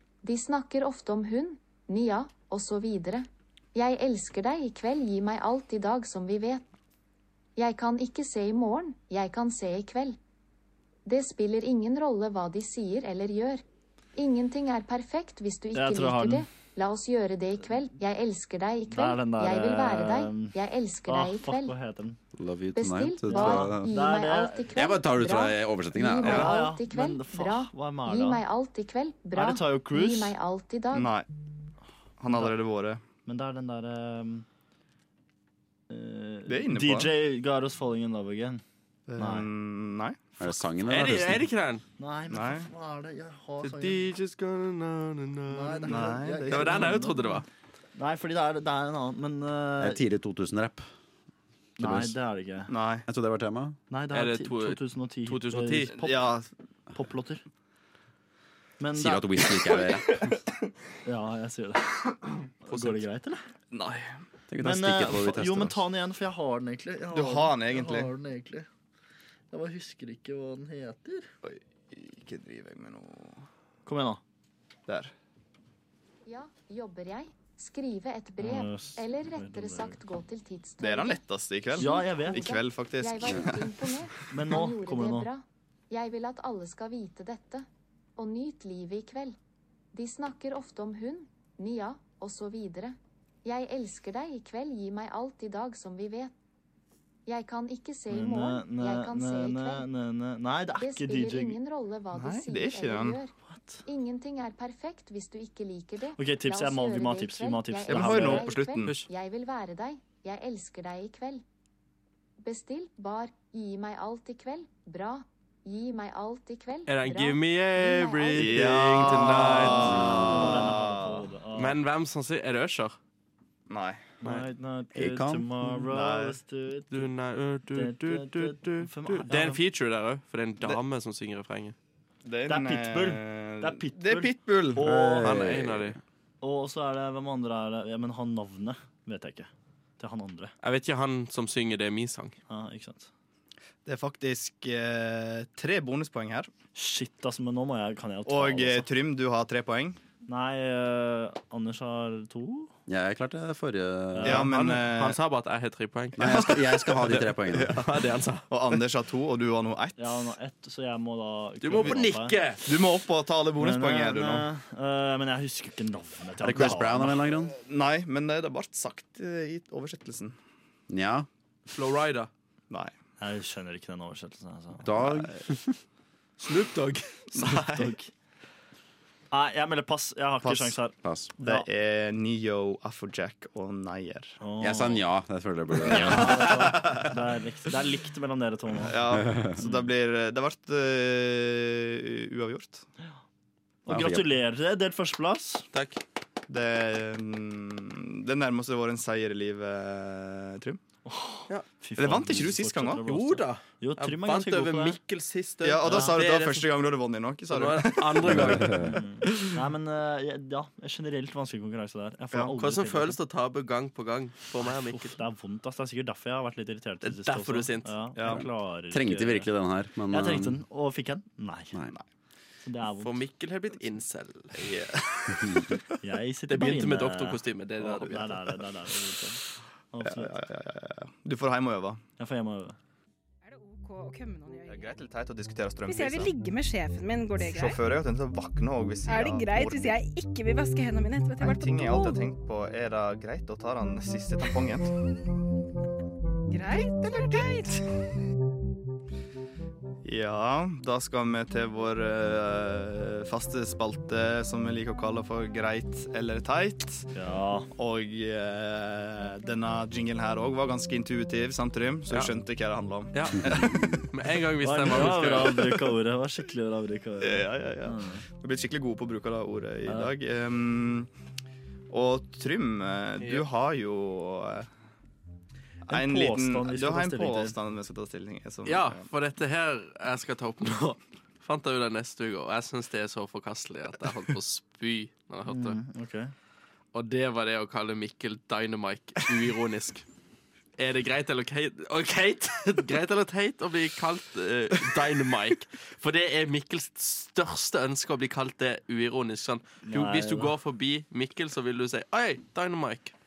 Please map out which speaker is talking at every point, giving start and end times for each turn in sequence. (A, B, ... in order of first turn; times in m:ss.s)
0:00.2-0:06.6 A
0:07.6-0:10.2 A
0:11.1-0:13.6 A
0:14.2-0:21.8 A
0:15.7-0:16.5 B
0:18.9-0:22.2 B
0:22.3-0:23.9 C
0:22.7-0:31.1 A
0:23.3-0:24.7 B
0:24.7-0:26.5 C
0:26.2-0:28.4 B
0:29.4-0:30.4 B
0:30.9-0:31.3 D
0:32.2-0:33.0 D
0:33.3-0:34.4 B
0:35.9-0:38.6 B
0:36.5-0:37.1 D
0:39.1-0:40.2 D
0:39.2-0:39.5 B
0:40.4-0:41.5 C
0:40.9-0:41.8 E
0:42.0-0:44.1 B
0:42.3-0:42.7 D
0:43.6-0:47.5 E
0:45.5-0:47.4 B
0:45.9-0:47.0 D
0:48.0-0:50.0 B
0:49.8-0:50.9 C
0:51.8-0:52.7 B
0:51.8-0:52.2 C
0:52.7-0:53.0 D
0:53.1-0:53.8 C
0:53.9-0:56.3 B
0:54.1-0:56.0 E
0:55.9-0:56.5 D
0:56.9-0:57.4 B
0:58.8-0:59.3 B
0:59.0-1:00.3 C
1:01.0-1:03.4 B
1:02.7-1:03.0 E
1:03.7-1:04.2 D
1:04.5-1:05.8 C
1:04.6-1:08.7 B
1:07.1-1:08.1 D
1:09.5-1:11.3 B
1:11.4-1:13.4 D
1:13.9-1:14.2 B
1:14.9-1:15.1 D
1:16.3-1:21.2 A
1:18.4-1:20.0 B
1:20.8-1:24.0 D
1:21.8-1:27.7 A
1:21.8-1:22.4 B
1:24.3-1:25.3 B
1:28.2-1:29.4 A
1:29.9-1:36.3 A
1:37.3-1:39.9 A
1:38.1-1:41.6 B
1:40.8-1:43.3 A
1:42.1-1:43.2 D
1:43.5-1:43.8 B
1:43.9-1:51.4 A
1:46.2-1:48.5 B
1:47.9-1:49.0 D
1:48.8-1:49.1 E
1:52.4-1:58.6 A
1:56.9-2:00.3 E
1:58.4-2:01.3 D
1:59.7-2:01.8 B
1:59.8-2:00.7 C
2:01.6-2:03.0 E
2:03.7-2:04.1 D
2:04.2-2:07.1 B
2:05.0-2:05.8 C
2:05.9-2:06.4 D
2:06.9-2:11.8 E
2:07.7-2:09.6 B
2:12.2-2:14.9 D
2:12.5-2:15.4 B
2:14.8-2:16.0 C
2:15.2-2:16.0 E
2:16.4-2:20.5 B
2:20.6-2:22.4 E
2:22.5-2:23.1 B
2:23.8-2:26.5 D
2:26.8-2:28.9 B
2:28.3-2:30.0 D
2:30.3-2:32.7 B
2:32.9-2:34.5 C
2:34.1-2:34.5 B
2:34.2-2:35.2 D
2:34.5-2:38.5 E
2:36.2-2:37.8 C
2:36.2-2:36.9 D
2:37.5-2:37.9 D
2:38.5-2:40.3 D
2:40.0-2:42.4 B
2:41.6-2:42.6 E
2:42.6-2:44.5 D
2:43.6-2:47.2 B
2:46.4-2:47.6 C
2:47.4-2:50.4 D
2:50.9-2:51.3 C
2:51.7-2:52.3 E
2:53.2-2:54.9 B
2:54.8-2:55.8 C
2:56.4-2:57.6 E
2:57.3-2:57.9 D
2:57.7-2:58.1 B
2:59.3-3:01.6 B
3:00.4-3:00.8 D
3:01.0-3:01.3 C
3:01.4-3:04.4 D
3:04.4-3:05.0 B
3:04.6-3:06.8 C
3:05.9-3:09.0 B
3:05.9-3:07.1 D
3:08.8-3:12.9 D
3:09.1-3:09.6 C
3:13.8-3:15.6 B
3:13.9-3:14.3 C
3:15.7-3:16.0 E
3:16.5-3:20.8 D
3:21.1-3:25.0 B
3:22.0-3:23.0 D
3:23.0-3:26.7 E
3:25.6-3:29.6 D
3:25.9-3:26.1 B
3:27.5-3:28.9 E
3:28.3-3:29.0 C
3:28.7-3:33.2 B
3:32.6-3:35.2 E
3:34.6-3:39.5 B
3:37.0-3:38.0 E
3:38.2-3:38.4 D
3:38.2-3:40.6 C
3:40.1-3:41.8 B
3:41.7-3:42.0 C
3:42.6-3:43.2 B
3:43.0-3:44.8 E
3:44.6-3:45.6 D
3:46.0-3:50.4 B
3:46.5-3:48.4 E
3:50.0-3:52.0 D
3:52.2-3:52.8 B
3:53.4-3:55.0 F
3:54.7-3:56.3 D
3:55.9-3:57.8 F
3:57.4-4:00.0 D
3:59.1-4:02.3 F
4:01.4-4:04.9 D
4:06.5-4:07.9 F
4:10.0-4:17.1 D
4:17.1-4:17.7 B
4:17.8-4:24.1 D
4:23.1-4:25.6 E
4:24.6-4:28.2 B
4:25.0-4:25.6 D
4:27.2-4:31.1 D
4:31.9-4:34.7 D
4:33.2-4:33.4 E
4:35.9-4:39.0 D
4:35.9-4:37.6 B
4:38.7-4:45.8 E
4:45.5-4:46.3 B
4:46.9-4:50.0 E
4:50.8-5:03.1 E
4:59.8-5:00.6 B